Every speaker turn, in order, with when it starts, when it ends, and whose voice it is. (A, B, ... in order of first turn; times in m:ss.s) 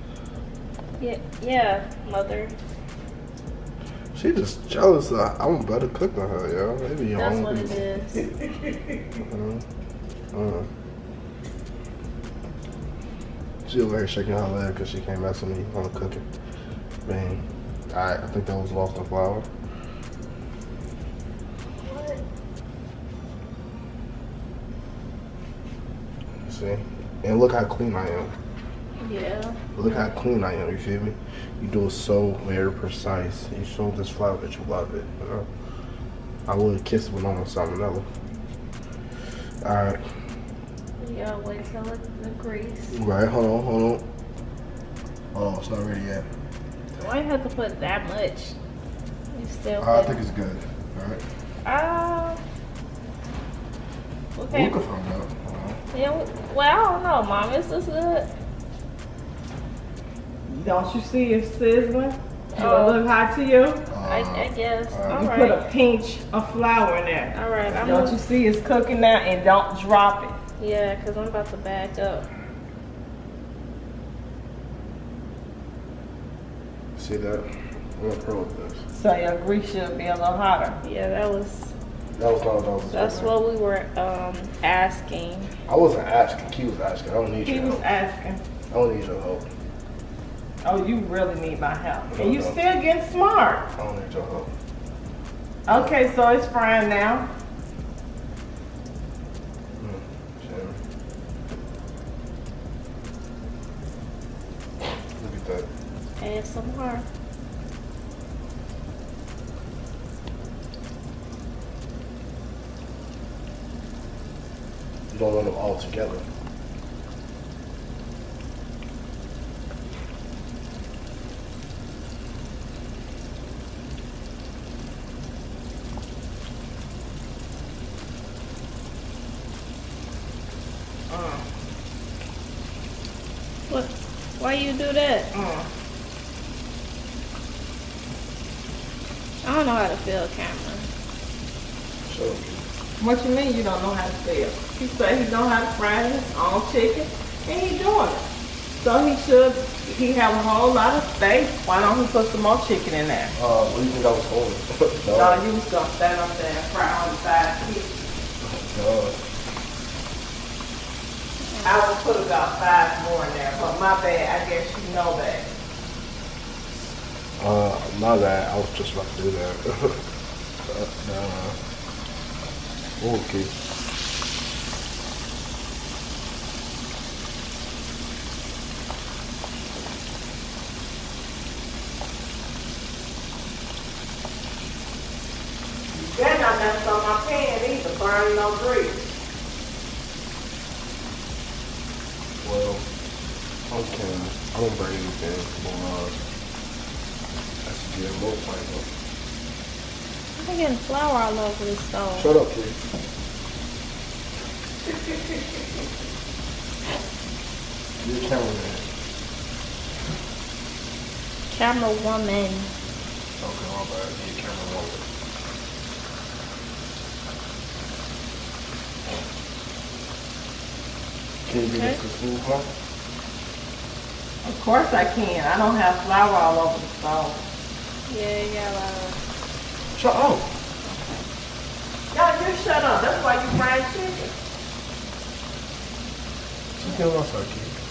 0:01.0-0:02.5 A
0:04.1-0:07.8 B
0:07.1-0:08.2 A
0:08.4-0:08.7 C
0:09.3-0:09.6 B
0:10.3-0:10.7 B
0:13.6-0:16.2 B
0:17.0-0:19.5 B
0:21.8-0:22.2 A
0:26.4-0:28.3 B
0:29.0-0:29.6 A
0:29.7-0:35.5 B
0:36.5-0:38.0 B
0:39.6-0:40.0 B
0:41.0-0:43.0 A
0:42.9-0:44.0 B
0:45.3-0:46.2 B
0:47.0-0:48.5 A
0:49.3-0:50.1 A
0:49.8-0:51.2 B
0:51.6-0:52.4 A
0:54.3-0:54.8 A
0:54.5-0:55.8 B
0:55.9-0:58.3 A
1:00.5-1:03.8 C
1:02.6-1:03.0 A
1:03.9-1:05.3 B
1:04.0-1:05.6 A
1:05.1-1:10.4 C
1:07.3-1:08.2 A
1:10.6-1:12.3 A
1:17.0-1:18.8 B
1:18.9-1:20.8 C
1:20.8-1:21.7 A
1:22.2-1:23.3 B
1:22.9-1:25.5 A
1:25.7-1:27.8 B
1:27.4-1:28.4 C
1:28.7-1:29.5 B
1:30.6-1:33.7 C
1:32.1-1:32.6 B
1:33.8-1:34.5 B
1:35.7-1:37.3 C
1:39.8-1:40.8 B
1:45.2-1:45.7 B
1:46.2-1:47.0 A
1:55.1-1:56.2 B
2:11.1-2:11.4 C
2:13.7-2:15.3 A
2:15.3-2:15.7 C
2:19.4-2:20.9 A
2:22.1-2:22.7 B
2:23.0-2:28.2 C
2:28.8-2:33.3 C
2:33.3-2:35.4 B
2:35.1-2:38.1 C
2:38.4-2:39.2 B
2:41.4-2:41.8 A
2:41.6-2:45.5 C
2:47.4-2:50.0 B
2:50.7-2:51.6 B
2:53.0-2:53.5 B
3:05.9-3:09.1 C
3:12.4-3:12.9 B
3:13.7-3:16.2 B
3:17.6-3:18.9 B
3:20.4-3:22.4 A
3:22.2-3:22.8 B
3:28.0-3:28.8 B
3:31.5-3:32.7 A
3:33.4-3:35.1 B
3:41.4-3:42.7 B
3:41.7-3:42.0 A
3:44.4-3:47.4 C
3:48.1-3:49.2 A
3:50.0-3:50.5 B
3:52.1-3:54.3 C
3:56.8-3:57.7 B